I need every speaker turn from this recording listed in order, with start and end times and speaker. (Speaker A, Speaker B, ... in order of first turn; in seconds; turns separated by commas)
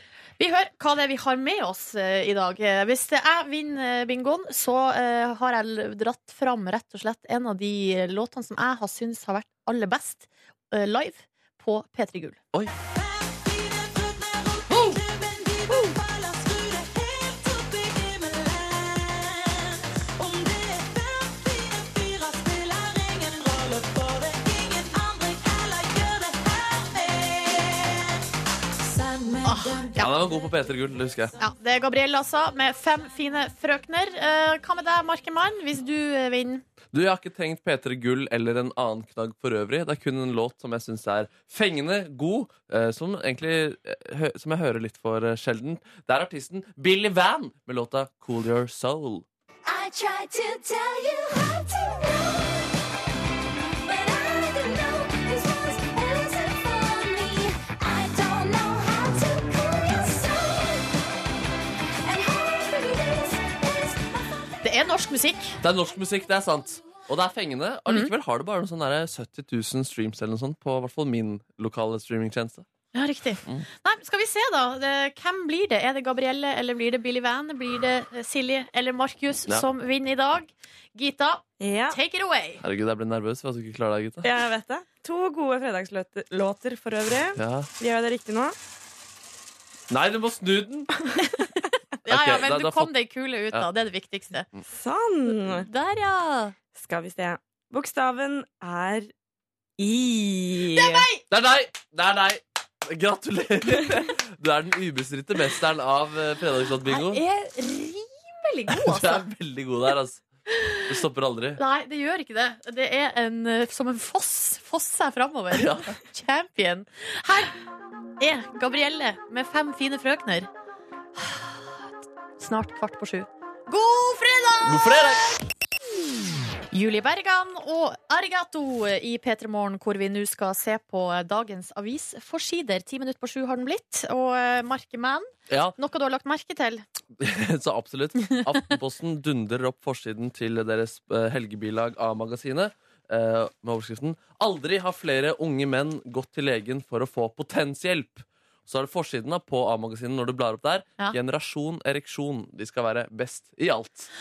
Speaker A: 0.4-12.4, Speaker A: 14.7-15.0, Speaker B: 15.1-16.5, Speaker B: 20.2-27.8, Speaker A: 29.4-30.1, Speaker C: 30.0-31.4, Speaker A: 31.4-36.6, Speaker C: 36.9-49.2, Speaker D: 49.7-51.3, Speaker D: 54.6-54.9, Speaker D: 55.4-57.1, Speaker D: 57.9-58.8, Speaker A: 64.6-65.6, Speaker C: 65.6-72.7, Speaker A: 67.9-68.1, Speaker A: 72.9-82.6, Speaker B: 81.6-82.0, Speaker C: 82.6-84.3, Speaker B: 84.2-88.5, Speaker C: 87.3-87.7, Speaker C: 89.9-90.9, Speaker A: 92.0-94.5, Speaker C: 92.1-92.9, Speaker B: 94.7-95.7, Speaker A: 95.5-96.6, Speaker B: 96.7-99.1, Speaker B: 99.8-101.1, Speaker A: 100.7-101.2, Speaker C: 101.3-107.2, Speaker A: 106.9-109.3, Speaker C: 108.7-110.2, Speaker A: 110.5-110.8, Speaker C: 110.9-111.6, Speaker A: 111.6-117.6, Speaker C: 115.5-116.0, Speaker A: 118.2-120.5, Speaker A: 121.2-121.9, Speaker A: 122.4-125.0, Speaker C: 124.6-125.3, Speaker A: 126.7-136.8, Speaker C: 135.5-135.8, Speaker C: 137.2-154.1